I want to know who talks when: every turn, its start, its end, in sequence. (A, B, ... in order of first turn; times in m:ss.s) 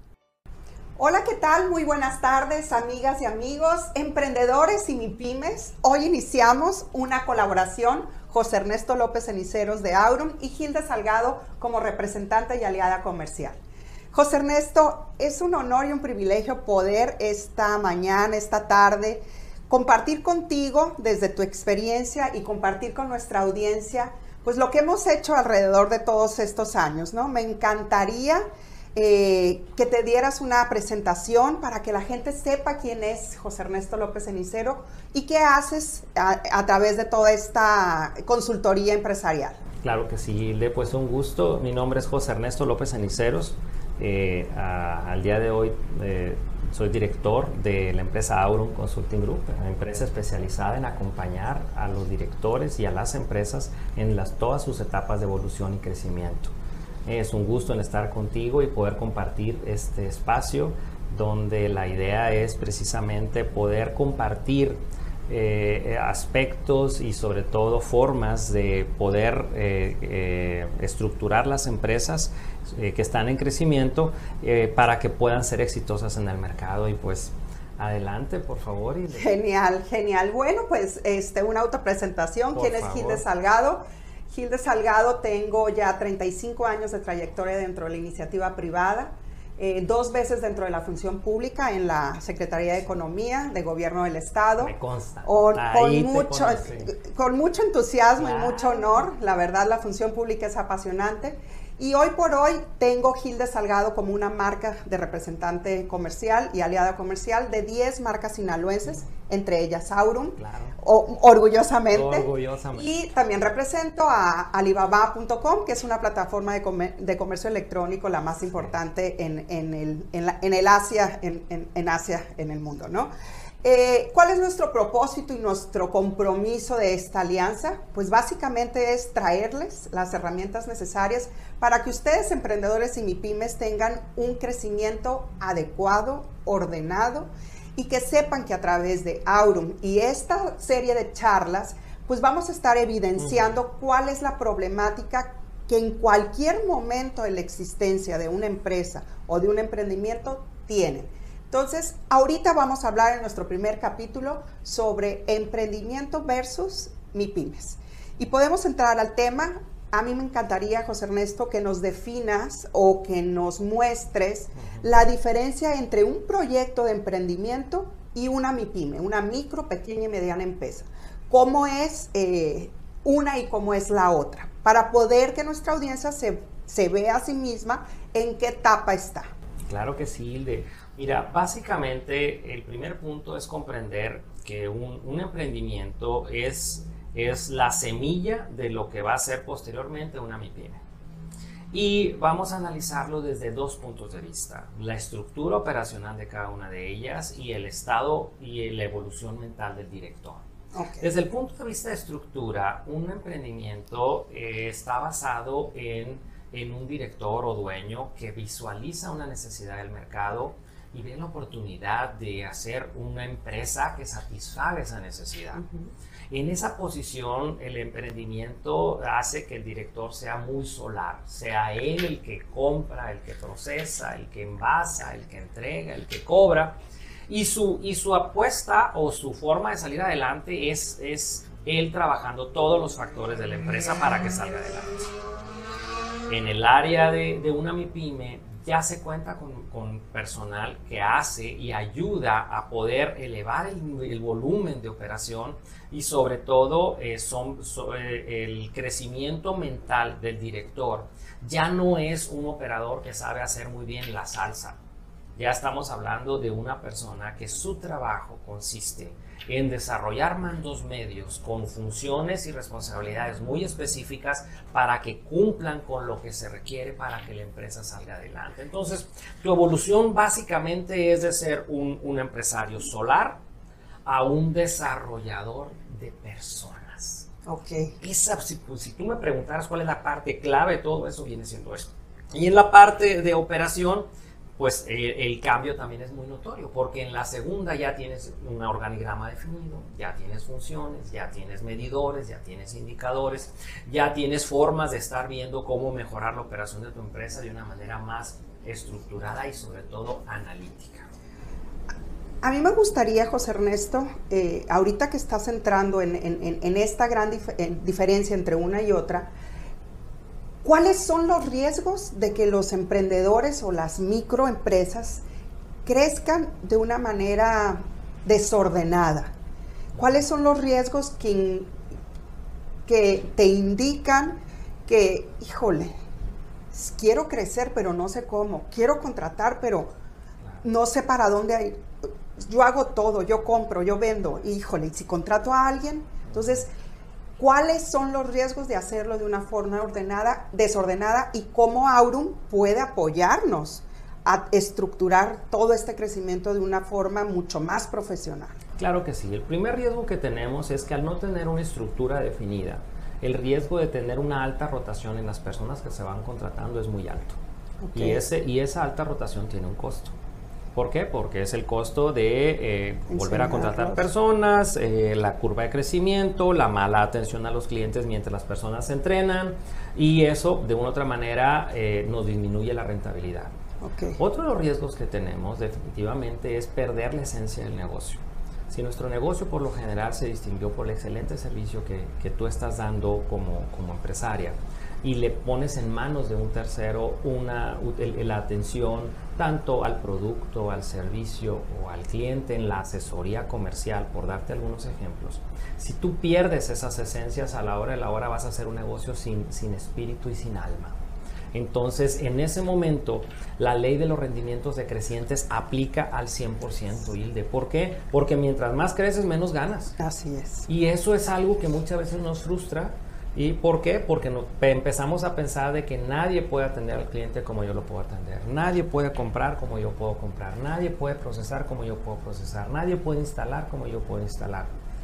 0:01.0-0:13.6 A
0:14.1-0:28.4 A
0:28.9-0:39.6 A
0:39.8-0:56.5 B
0:57.0-1:19.4 B
1:19.1-2:03.1 A
1:22.5-1:23.2 B
1:34.6-1:36.9 B
1:38.2-1:39.1 B
1:50.4-1:50.8 B
1:51.9-1:52.9 B
2:03.6-2:59.3 A
2:23.2-2:23.6 B
2:59.6-3:10.8 B
3:11.7-3:20.4 B
3:20.7-3:21.1 A
3:21.0-3:35.6 B
3:35.5-3:35.9 A
3:36.3-3:55.1 B
3:56.3-4:14.8 B
4:15.3-4:33.4 B
4:34.0-4:37.3 B
4:37.4-4:37.9 A
4:38.0-5:01.1 B
5:02.4-5:09.3 A
5:10.6-5:15.2 A
5:15.8-5:19.3 A
5:19.9-5:21.7 A
5:22.8-5:25.9 A
5:26.7-5:29.9 A
5:30.6-5:31.8 A
5:32.4-5:36.7 A
5:36.3-5:36.6 B
5:37.4-5:48.6 A
5:48.8-5:57.4 B
5:57.8-5:58.2 A
5:57.9-6:00.1 B
6:00.7-6:13.5 B
6:03.1-6:04.0 A
6:13.8-6:14.2 A
6:14.2-6:41.0 B
6:41.5-6:49.9 B
6:50.0-6:50.7 A
6:50.7-7:04.8 B